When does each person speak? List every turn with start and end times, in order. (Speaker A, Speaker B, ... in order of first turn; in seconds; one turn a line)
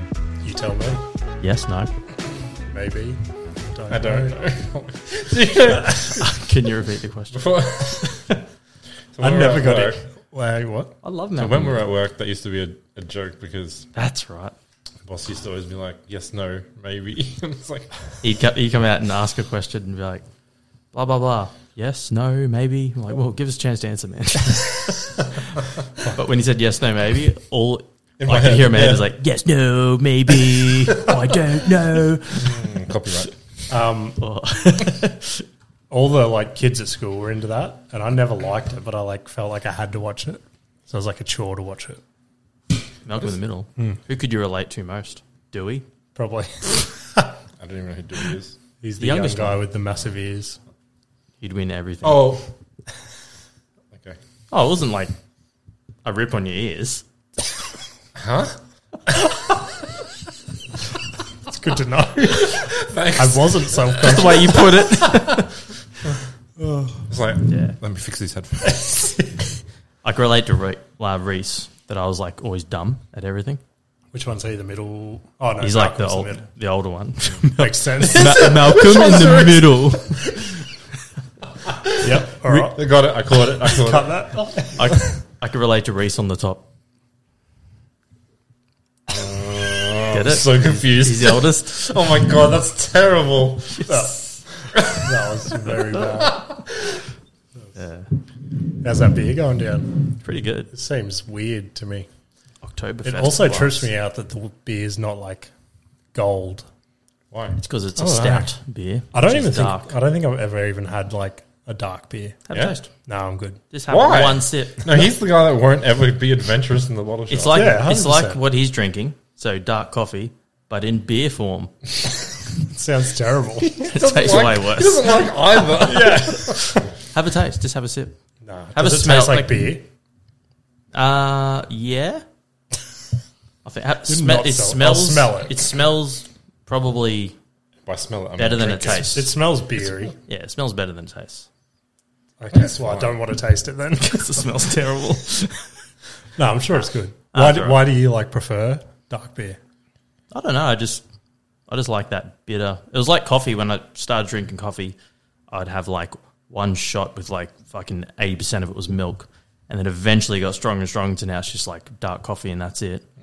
Speaker A: 0.4-1.0
Speaker B: 1.4-1.9
Speaker A: 2.7-4.3
Speaker C: 3.9-6.3
Speaker B: 6.2-8.4
Speaker C: 7.3-8.2
Speaker C: 9.1-10.0
Speaker A: 9.2-10.9
Speaker B: 11.0-11.8
Speaker C: 11.3-13.9
Speaker B: 13.9-14.5
Speaker C: 15.0-18.0
Speaker B: 18.2-20.2
Speaker B: 20.9-25.2
Speaker B: 26.0-32.7
Speaker C: 28.2-29.1
Speaker C: 32.3-33.3
Speaker A: 33.7-34.2
Speaker B: 34.2-35.4
Speaker A: 35.9-42.0
Speaker B: 43.0-45.8
Speaker A: 46.1-47.3
Speaker C: 47.6-48.6
Speaker A: 48.8-50.6
Speaker B: 49.0-49.6
Speaker B: 51.4-52.4
Speaker C: 52.0-52.5
Speaker C: 53.9-54.2
Speaker B: 54.5-55.1
Speaker B: 56.0-57.0
Speaker C: 58.1-58.5
Speaker A: 61.5-64.7
Speaker C: 62.3-65.2
Speaker B: 64.0-65.5
Speaker A: 66.6-67.0
Speaker C: 67.1-69.2
Speaker B: 67.5-67.8
Speaker B: 70.0-73.6
Speaker A: 74.1-76.5
Speaker B: 75.6-80.2
Speaker A: 77.5-78.8
Speaker C: 78.1-79.8
Speaker C: 81.8-82.1
Speaker A: 82.0-82.8
Speaker C: 82.7-84.2
Speaker A: 83.6-85.0
Speaker B: 84.8-86.7
Speaker C: 89.1-93.9
Speaker B: 90.1-91.8
Speaker A: 93.8-96.4
Speaker C: 94.7-95.1
Speaker C: 95.6-97.0
Speaker B: 97.7-98.1
Speaker A: 98.8-100.1
Speaker B: 100.2-100.7
Speaker A: 100.7-102.1
Speaker B: 102.6-103.8
Speaker A: 103.0-105.5
Speaker A: 106.1-106.7
Speaker C: 107.3-107.6
Speaker B: 107.6-109.9
Speaker A: 108.0-108.5
Speaker A: 109.1-112.4
Speaker B: 112.5-112.9
Speaker C: 112.5-112.8
Speaker A: 113.0-113.6
Speaker B: 113.7-114.9
Speaker C: 113.9-117.7
Speaker B: 117.3-121.7
Speaker A: 117.5-118.4
Speaker A: 122.6-123.9
Speaker C: 123.6-126.7
Speaker B: 123.9-125.1
Speaker A: 125.8-126.9
Speaker B: 127.1-128.2
Speaker A: 128.4-129.8
Speaker B: 128.8-129.8
Speaker B: 130.9-132.2
Speaker B: 133.6-137.3
Speaker A: 134.1-135.6
Speaker C: 137.8-139.2
Speaker B: 138.4-139.3
Speaker A: 138.7-140.1
Speaker B: 140.2-141.5
Speaker A: 142.4-144.5
Speaker C: 142.5-143.2
Speaker B: 144.0-145.7
Speaker A: 146.4-149.6
Speaker B: 147.3-147.9
Speaker B: 150.3-151.0
Speaker B: 151.7-154.9
Speaker B: 155.5-163.0